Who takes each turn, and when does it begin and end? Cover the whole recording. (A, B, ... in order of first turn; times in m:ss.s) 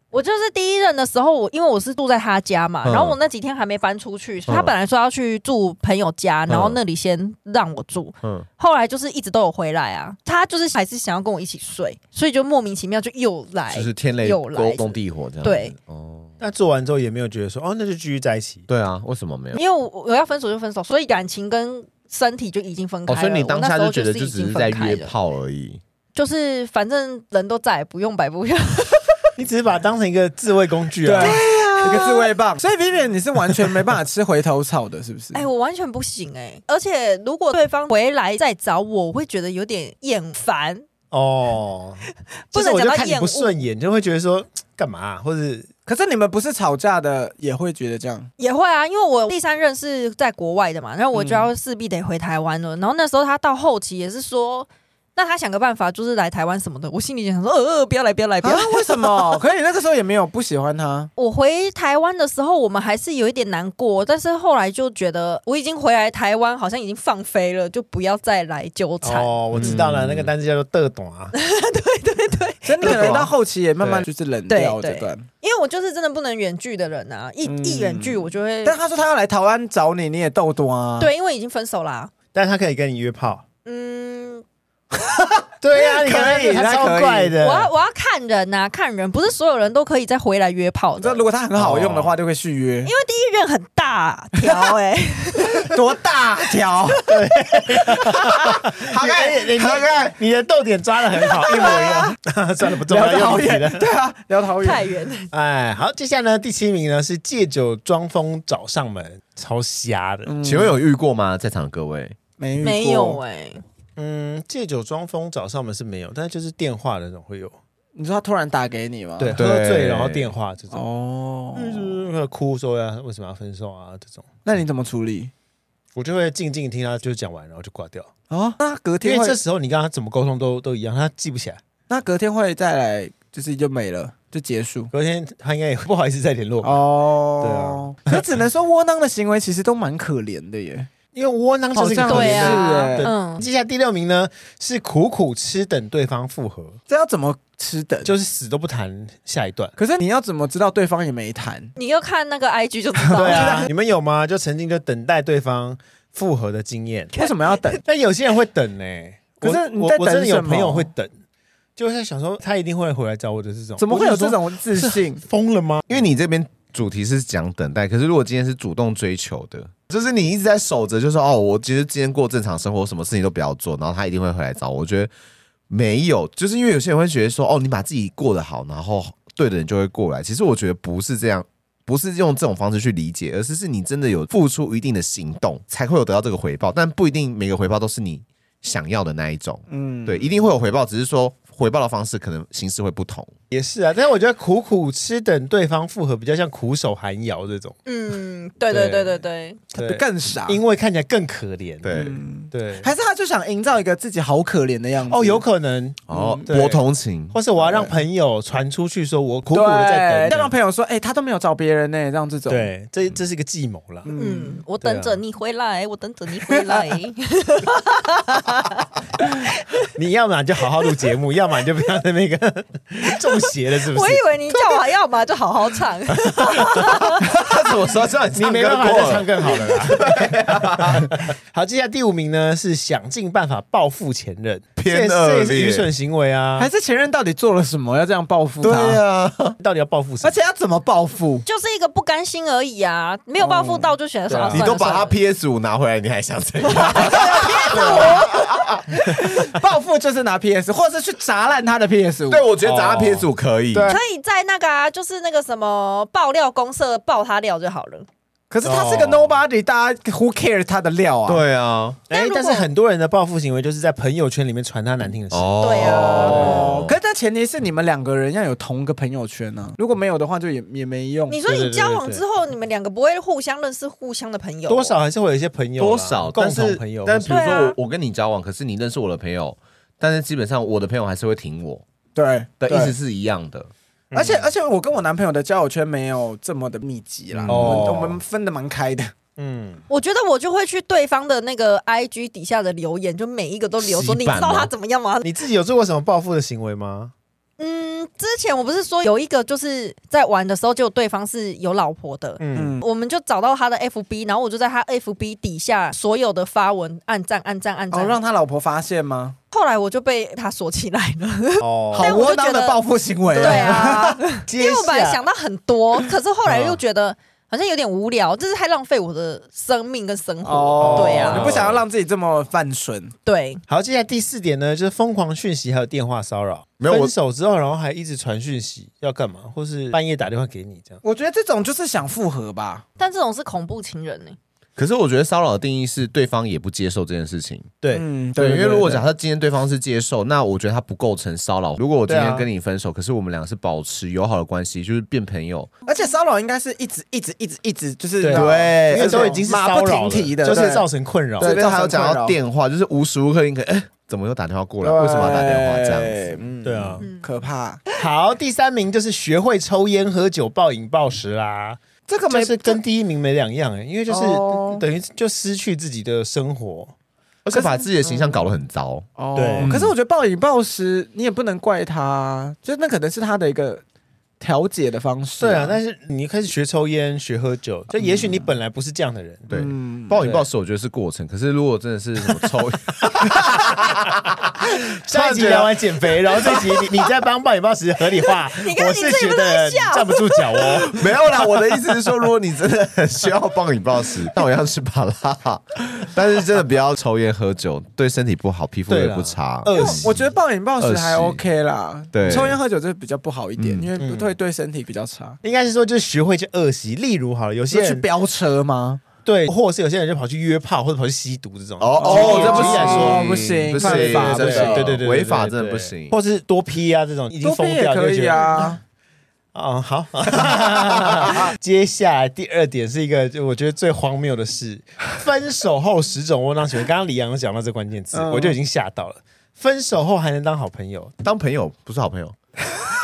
0:00.1-0:15.7 A
0:02.8-0:03.2 B
0:04.5-0:04.7 B
0:06.5-0:06.8 B
0:13.7-0:16.3 B
0:16.4-0:18.6 C
0:18.7-0:19.6 B
0:19.5-0:25.1 A
0:23.1-0:25.8 B
0:26.1-0:29.1 A
0:29.4-0:31.4 C
0:31.0-0:35.4 D
0:31.2-0:32.3 A
0:35.3-0:40.8 A
0:41.1-0:45.7 C
0:42.5-0:43.6 A
0:45.8-0:48.3 D
0:48.4-0:59.4 A
0:51.1-0:51.5 D
0:58.4-1:01.1 D
1:01.2-1:09.4 A
1:09.0-1:11.3 C
1:09.5-1:10.3 B
1:11.3-1:13.0 A
1:12.6-1:15.2 D
1:12.8-1:13.3 C
1:14.5-1:18.8 A
1:17.4-1:21.1 D
1:21.0-1:22.1 A
1:22.3-1:23.4 C
1:23.6-1:24.4 A
1:25.6-1:27.7 C
1:25.8-1:27.4 D
1:27.4-1:31.2 A
1:31.0-1:32.9 D
1:31.6-1:32.1 B
1:32.8-1:35.7 A
1:34.4-1:34.7 D
1:35.6-1:37.0 D
1:37.1-1:43.9 C
1:37.8-1:38.5 A
1:38.9-1:39.9 D
1:39.0-1:40.1 B
1:41.5-1:42.1 A
1:41.6-1:42.0 D
1:42.9-1:44.9 D
1:44.6-1:45.3 A
1:45.3-1:50.3 C
1:50.2-1:50.8 D
1:50.4-1:52.2 B
1:52.4-1:53.2 D
1:52.6-1:53.6 A
1:54.0-1:57.6 C
1:58.0-1:59.4 D
1:59.2-2:00.8 C
1:59.4-2:00.3 B
2:00.7-2:02.0 D
2:01.5-2:04.3 C
2:04.4-2:05.3 D
2:05.9-2:08.1 C
2:08.3-2:09.4 D
2:09.0-2:11.6 C
2:11.9-2:14.9 D
2:14.9-2:16.8 C
2:16.6-2:20.9 D
2:17.4-2:18.2 C
2:21.1-2:26.8 C
2:21.7-2:23.1 D
2:22.0-2:23.4 A
2:26.9-2:28.1 D
2:28.0-2:29.7 C
2:29.8-2:31.7 D
2:31.8-2:33.7 A
2:33.1-2:33.7 D
2:33.1-2:37.1 C
2:37.1-2:37.8 D
2:37.8-2:41.1 C
2:39.4-2:40.9 D
2:41.8-2:45.9 C
2:43.8-2:45.2 D
2:45.9-2:55.1 B
2:55.7-3:13.3 B
3:09.7-3:10.3 D
3:13.5-3:17.8 C
3:17.8-3:19.6 A
3:18.7-3:19.2 C
3:19.7-3:22.9 C
3:19.7-3:20.6 D
3:21.8-3:22.2 B
3:21.9-3:25.4 D
3:25.1-3:30.5 C
3:26.1-3:27.4 B
3:26.1-3:26.5 D
3:27.6-3:27.9 D
3:29.5-3:32.7 D
3:32.5-3:34.1 C
3:34.0-3:34.6 D
3:34.2-3:39.8 A
3:34.8-3:35.2 C
3:36.5-3:36.8 D
3:39.9-3:44.7 C
3:43.9-3:47.2 A
3:46.3-3:46.9 C
3:47.2-3:51.1 B
3:48.3-3:56.7 C
3:54.8-3:55.9 B
3:56.6-3:59.0 D
3:58.6-3:59.6 B
3:59.6-4:00.3 C
4:00.2-4:01.4 D
4:01.4-4:05.2 A
4:03.4-4:03.9 D
4:04.3-4:04.7 C
4:04.5-4:08.9 B
4:06.7-4:08.5 A
4:07.0-4:12.5 D
4:12.3-4:14.0 B
4:12.6-4:14.0 C
4:13.9-4:18.1 A
4:18.5-4:21.4 D
4:18.6-4:19.4 C
4:21.3-4:22.0 B
4:22.1-4:22.7 A
4:22.1-4:26.7 C
4:25.3-4:27.0 B
4:25.6-4:26.5 A
4:25.8-4:31.4 D
4:31.3-4:34.9 A
4:31.4-4:32.2 C
4:34.7-4:37.5 C
4:35.8-4:41.8 B
4:37.2-4:37.8 A
4:42.1-4:43.0 D
4:42.6-4:43.7 B
4:44.1-4:44.5 C
4:44.1-4:49.1 D
4:47.3-4:47.9 B
4:47.5-4:48.2 C
4:49.4-4:49.8 C
4:49.9-4:55.3 A
4:53.8-4:54.7 B
4:55.2-4:57.1 C
4:57.6-5:08.2 A
5:02.4-5:02.8 C
5:02.5-5:02.8 D
5:07.9-5:09.4 D
5:09.5-5:12.8 A
5:11.6-5:12.2 C
5:11.9-5:14.2 D
5:13.3-5:21.4 A
5:13.4-5:13.9 C
5:14.4-5:15.2 C
5:16.4-5:16.8 C
5:20.4-5:23.1 D
5:20.8-5:21.7 C
5:20.9-5:21.8 B
5:23.2-5:23.6 A
5:23.7-5:31.0 C
5:26.8-5:27.1 B
5:31.0-5:32.8 D
5:33.0-5:34.4 A
5:34.8-5:37.7 B
5:37.8-5:39.0 C
5:37.9-5:39.0 D
5:38.4-5:45.7 B
5:42.0-5:42.5 C
5:45.8-5:50.8 D
5:48.2-5:51.6 C
5:48.3-5:49.4 B
5:51.4-5:52.4 D
5:51.4-5:56.4 B
5:54.8-5:57.8 D
5:56.6-5:57.0 C
5:57.0-5:57.4 A
5:58.0-6:06.9 C
6:02.1-6:02.8 D
6:04.1-6:04.8 D
6:07.4-6:09.1 B
6:07.5-6:08.4 D
6:09.2-6:13.8 D
6:09.3-6:09.9 C
6:09.6-6:09.9 B
6:14.4-6:15.8 D
6:15.4-6:19.5 C
6:18.0-6:18.5 D
6:19.5-6:26.8 B
6:19.5-6:20.3 D
6:23.2-6:23.9 C
6:24.6-6:31.1 C
6:28.2-6:30.7 A
6:30.7-6:40.2 B
6:38.9-6:40.1 C
6:39.7-6:45.4 D
6:40.8-6:41.4 B
6:42.1-6:42.6 B
6:43.6-6:43.9 B
6:44.0-6:44.3 C
6:45.4-6:48.0 C
6:47.7-6:49.0 D
6:49.2-6:58.7 C
6:51.8-6:56.1 B
6:52.0-6:55.0 D
6:57.4-6:58.8 D
6:59.5-7:11.1 C
7:08.1-7:08.6 D
7:11.2-7:12.4 B